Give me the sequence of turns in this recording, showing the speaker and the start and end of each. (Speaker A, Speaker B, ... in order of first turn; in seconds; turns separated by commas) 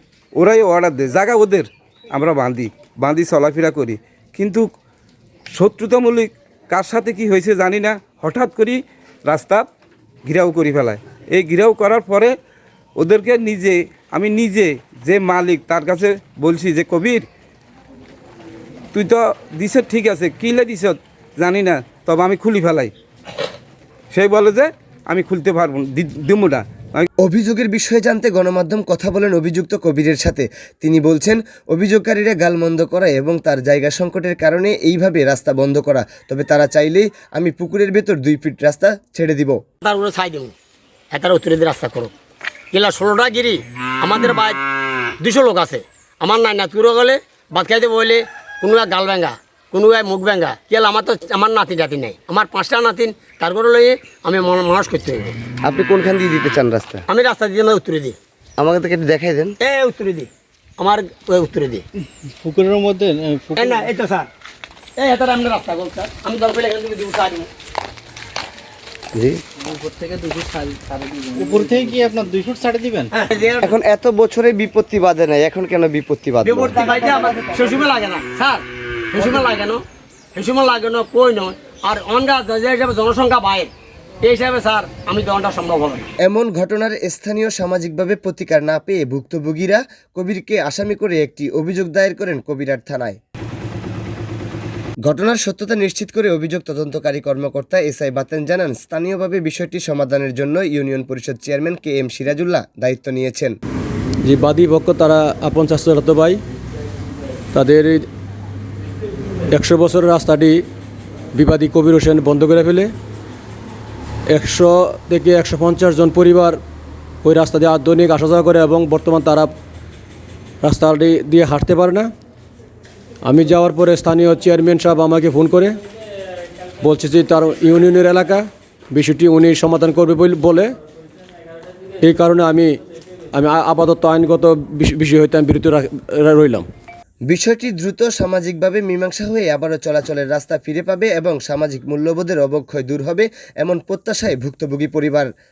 Speaker A: 0.4-4.7, Speaker A: 5.5-9.7, Speaker A: 10.3-12.3, Speaker A: 13.0-17.3, Speaker A: 18.9-22.9, Speaker A: 24.1-27.1, Speaker B: 27.2-39.6, Speaker C: 39.8-40.5, Speaker C: 41.1-42.1, Speaker C: 42.7-44.6, Speaker C: 45.2-55.4, Speaker B: 55.7-57.0, Speaker C: 57.1-58.2, Speaker B: 58.6-59.6, Speaker C: 59.6-61.8, Speaker D: 62.4-63.7, Speaker C: 63.5-64.3, Speaker C: 65.0-67.5, Speaker D: 69.8-70.8, Speaker D: 71.3-73.1, Speaker C: 73.1-73.7, Speaker B: 73.6-76.9, Speaker C: 76.4-79.8, Speaker C: 80.3-83.7, Speaker C: 84.2-86.1, Speaker B: 86.2-93.2, Speaker B: 95.1-103.6, Speaker E: 104.2-106.4, Speaker E: 107.5-108.0, Speaker E: 109.5-110.6, Speaker E: 111.3-112.9, Speaker E: 114.3-116.6, Speaker E: 117.2-119.5, Speaker E: 120.6-122.1, Speaker E: 123.2-125.8, Speaker E: 126.8-130.7, Speaker E: 132.0-132.7, Speaker E: 133.3-136.7, Speaker B: 137.3-145.3